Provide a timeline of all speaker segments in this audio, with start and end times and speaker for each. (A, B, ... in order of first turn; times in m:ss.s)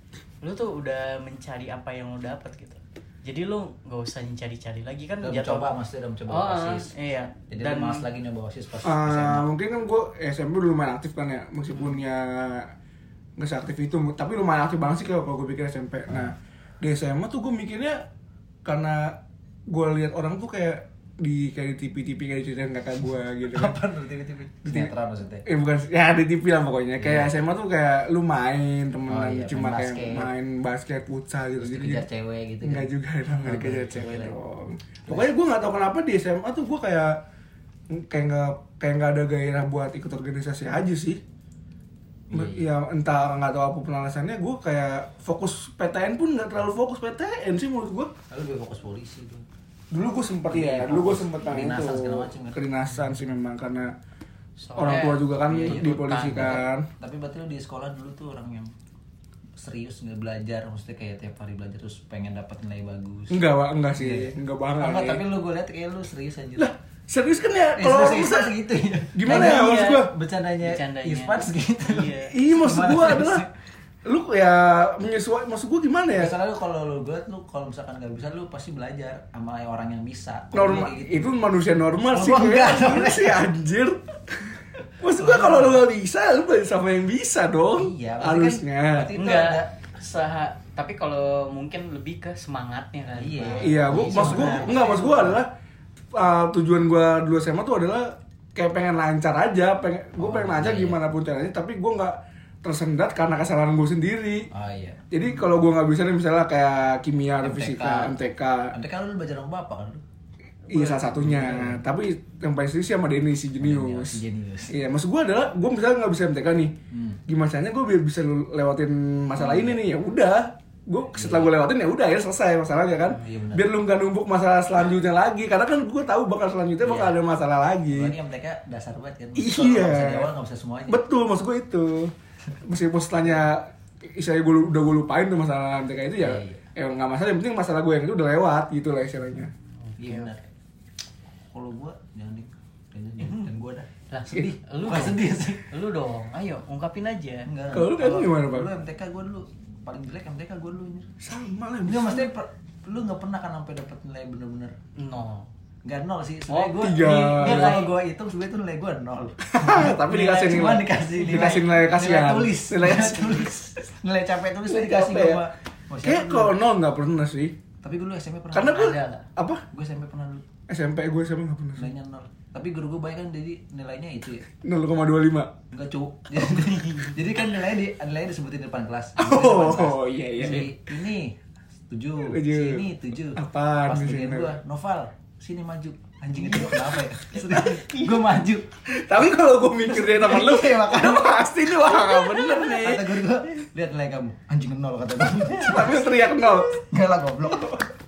0:00.4-0:05.7 A
0:05.2-0:06.9 B
0:06.3-0:08.1 A
0:07.5-0:09.5 B
0:08.8-0:12.7 C
0:13.4-0:18.0 C
0:16.1-0:16.4 B
0:18.6-0:19.2 C
0:19.7-0:23.8 C
0:23.5-0:25.5 B
0:24.6-0:24.9 C
0:25.4-0:32.1 C
0:27.0-0:27.3 B
0:29.1-0:30.3 B
0:31.6-0:34.4 B
0:32.6-0:37.2 C
0:37.9-0:41.2 C
0:42.3-0:42.7 B
0:42.3-0:48.1 C
0:48.3-0:49.4 B
0:49.9-0:53.9 C
0:50.5-0:52.6 B
0:54.6-0:56.6 A
0:54.8-0:56.9 C
0:55.5-0:58.7 B
0:59.6-1:03.4 B
1:03.3-1:05.2 C
1:04.0-1:06.7 B
1:06.6-1:08.6 C
1:07.8-1:13.5 B
1:09.1-1:10.1 C
1:09.3-1:10.1 A
1:10.6-1:12.4 A
1:12.3-1:13.5 C
1:14.0-1:16.4 C
1:16.1-1:21.4 B
1:20.5-1:29.1 C
1:22.1-1:23.4 B
1:25.2-1:25.8 B
1:27.8-1:29.7 B
1:29.2-1:34.9 A
1:33.2-1:35.4 B
1:33.6-1:35.5 C
1:36.1-1:44.5 C
1:40.2-1:41.0 B
1:44.5-1:45.1 B
1:45.1-1:48.8 C
1:47.4-1:48.2 B
1:48.7-1:50.0 B
1:50.7-1:56.8 C
1:50.7-1:51.8 B
1:53.6-1:54.8 B
1:56.9-1:57.2 B
1:57.3-2:08.2 C
1:59.4-1:59.8 B
2:01.1-2:01.5 B
2:03.0-2:03.7 B
2:06.8-2:07.2 B
2:07.9-2:11.0 B
2:09.4-2:10.3 C
2:10.9-2:19.5 C
2:16.2-2:16.6 B
2:19.9-2:20.3 A
2:20.0-2:20.4 B
2:21.5-2:25.7 B
2:23.2-2:23.5 A
2:24.1-2:27.5 A
2:27.5-2:31.1 B
2:27.7-2:28.7 C
2:31.2-2:32.3 C
2:31.9-2:34.8 B
2:35.0-2:35.5 A
2:35.8-2:46.6 B
2:36.5-2:37.8 C
2:36.9-2:37.9 A
2:39.5-2:43.6 C
2:39.7-2:41.7 A
2:44.7-2:45.4 C
2:46.0-2:47.6 C
2:47.8-2:49.0 B
2:48.5-2:49.6 C
2:48.6-2:49.3 A
2:49.7-2:50.5 B
2:50.7-2:52.0 C
2:51.8-2:54.5 B
2:54.6-2:55.6 C
2:55.7-3:01.4 B
2:56.5-2:57.2 A
2:59.2-3:00.9 C
3:01.9-3:08.7 B
3:02.2-3:04.6 C
3:06.4-3:07.0 A
3:07.5-3:08.2 A
3:08.9-3:13.2 C
3:09.9-3:17.9 B
3:12.3-3:12.6 A
3:15.6-3:16.8 C